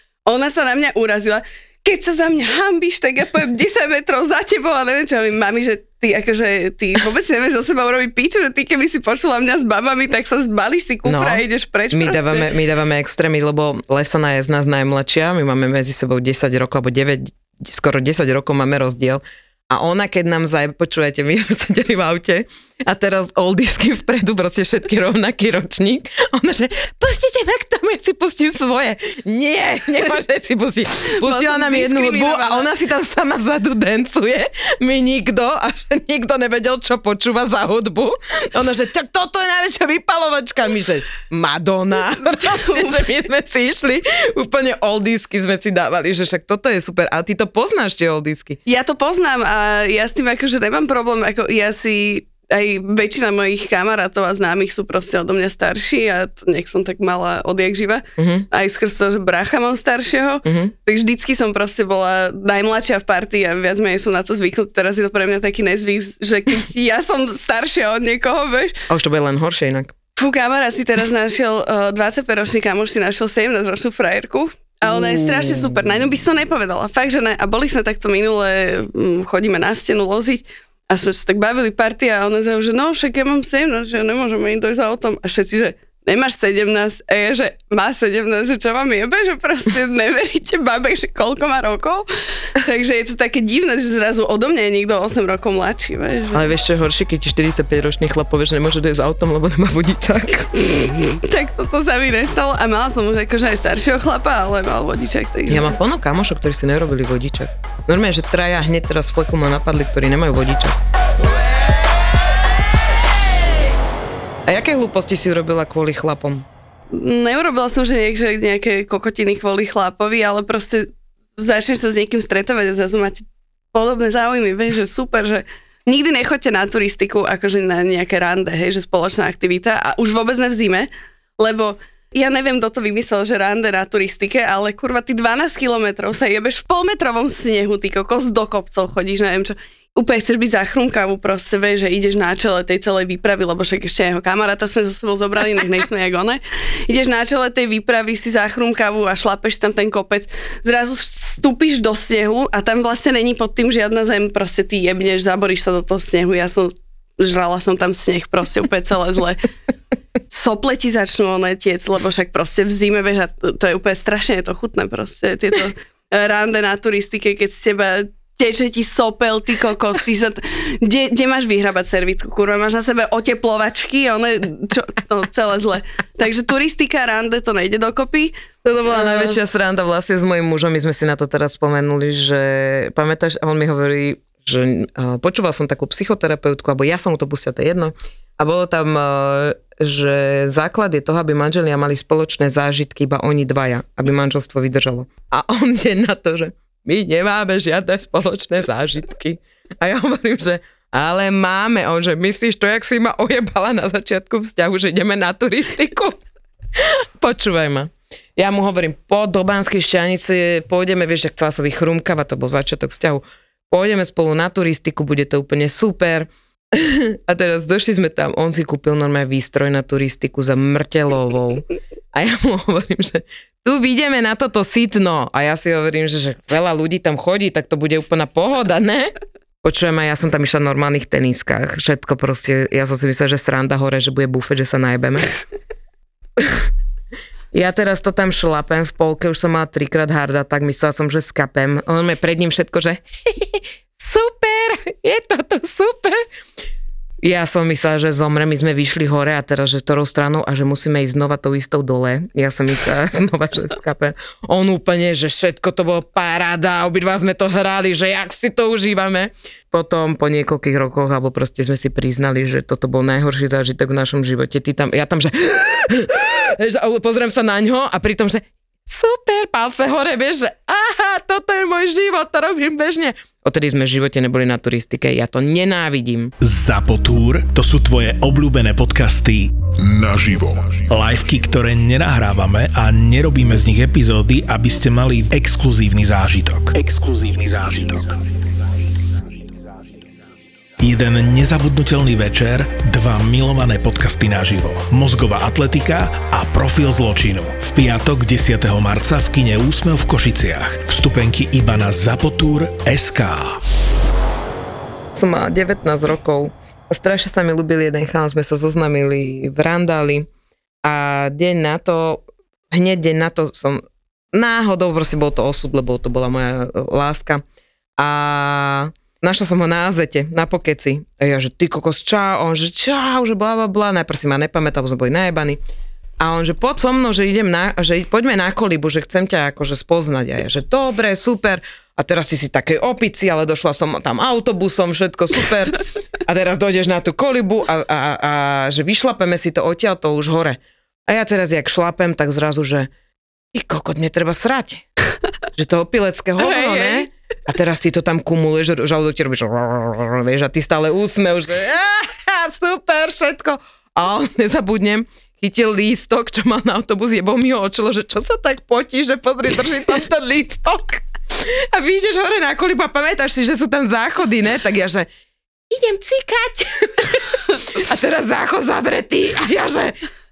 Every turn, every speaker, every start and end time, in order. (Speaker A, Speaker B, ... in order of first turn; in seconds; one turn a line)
Speaker A: 0.2-12.5
Speaker B: 11.0-48.6
Speaker A: 31.2-32.7
Speaker A: 42.2-43.0
Speaker A: 48.6-68.8
Speaker B: 58.2-58.5
Speaker B: 60.4-60.7
Speaker B: 68.9-69.9
Speaker A: 70.2-92.1
Speaker B: 74.9-75.7
Speaker A: 92.6-96.5
Speaker B: 96.3-100.7
Speaker A: 100.6-105.7
Speaker B: 105.5-110.8
Speaker B: 114.5-116.5
Speaker A: 116.9-159.4
Speaker A: 160.3-179.4
Speaker B: 178.6-206.2
Speaker B: 206.8-235.3
Speaker B: 236.4-236.6
Speaker B: 237.5-246.2
Speaker B: 247.2-276.3
Speaker C: 276.4-288.1
Speaker C: 290.8-303.5
Speaker B: 305.1-310.3
Speaker B: 310.8-317.4
Speaker B: 318.0-325.6
Speaker B: 326.2-342.9
Speaker B: 343.5-344.8
Speaker B: 345.5-365.1
Speaker A: 346.4-347.1
Speaker B: 365.7-369.9